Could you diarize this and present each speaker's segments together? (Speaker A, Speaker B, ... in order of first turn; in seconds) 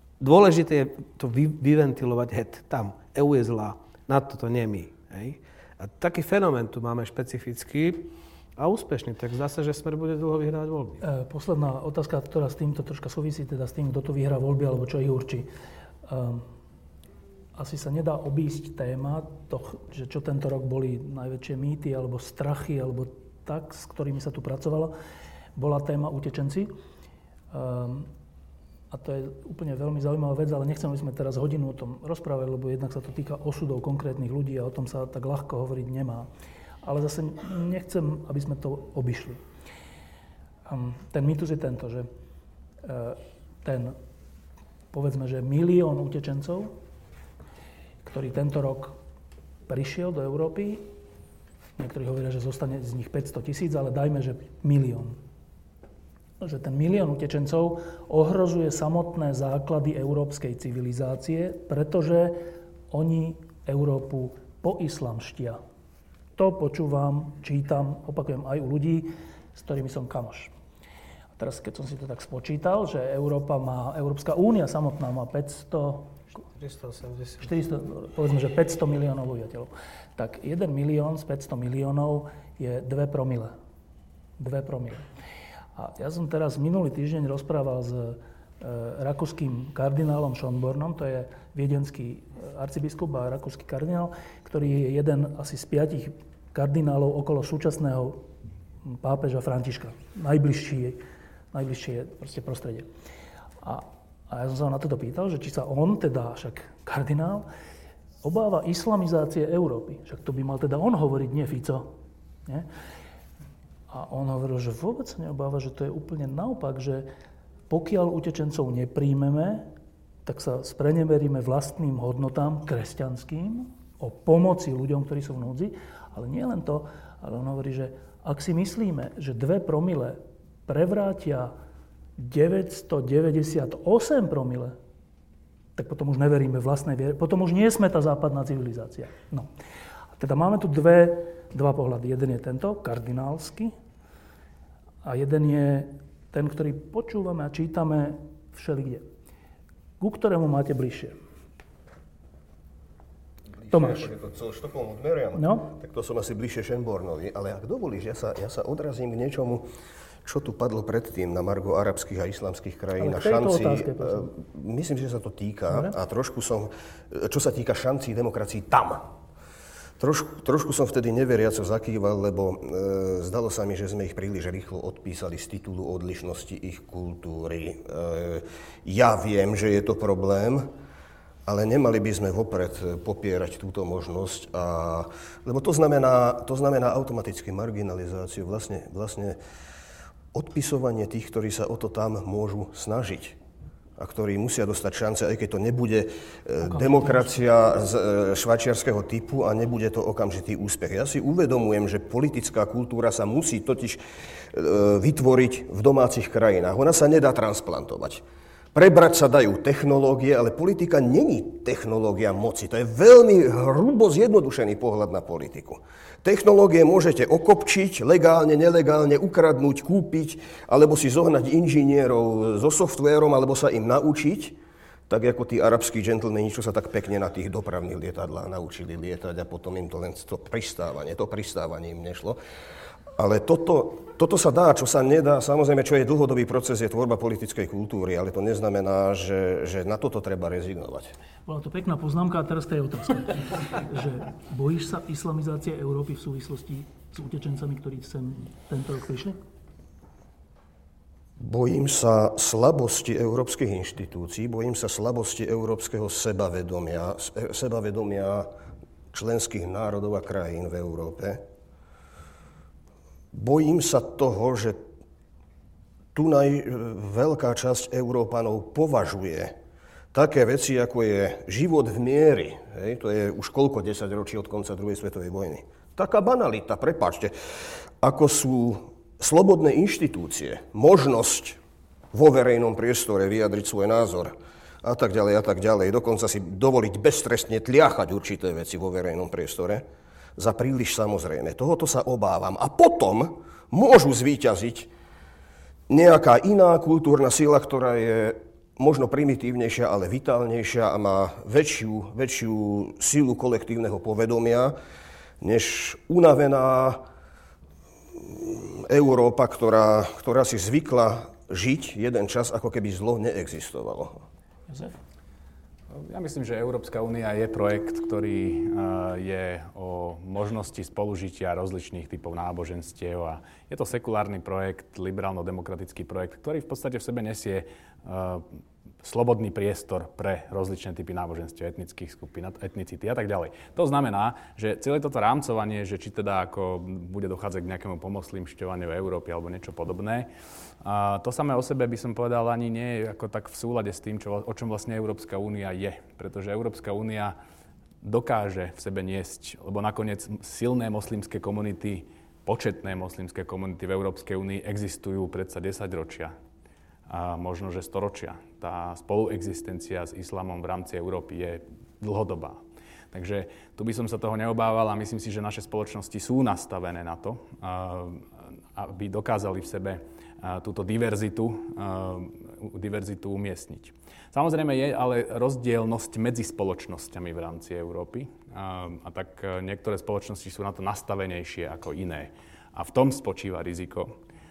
Speaker A: 0.2-11.0, 76.4-77.5
Speaker B: 11.0-15.5, 16.1-16.5, 17.6-24.9, 25.6-26.7, 27.5-28.1, 28.9-36.3, 36.8-39.4, 40.6-42.1, 42.8-43.9, 44.9-46.7, 48.0-48.9, 49.7-50.9, 51.8-55.1, 56.4-62.4, 62.9-65.6, 66.4-70.5, 71.4-76.2, 77.4-83.5, 84.4-85.0, 85.8-98.2, 98.8-102.9, 103.6-107.5, 108.2-111.9, 113.9-117.1, 117.7-119.7, 120.2-131.5, 132.2-134.7, 135.8-139.5, 140.2-143.7, 145.0-149.0, 150.0-151.1, 153.7-154.1, 155.3-155.7, 163.0-164.3, 196.6-197.3, 241.5-249.3, 314.7-315.0
Speaker C: 153.6-159.7, 160.2-169.1, 170.0-180.7, 181.4-189.4, 190.3-193.4, 194.0-204.0, 204.5-224.6, 225.1-232.4, 233.2-241.1, 251.4-258.5, 259.1-261.4, 263.3-264.8, 266.1-269.5, 270.1-277.3, 278.0-281.6, 282.1-289.9, 290.4-294.9, 295.9-304.8, 305.4-307.0, 308.1-314.2
Speaker D: 315.9-328.4, 329.0-340.3, 340.8-347.4, 348.0-356.3, 357.1-384.1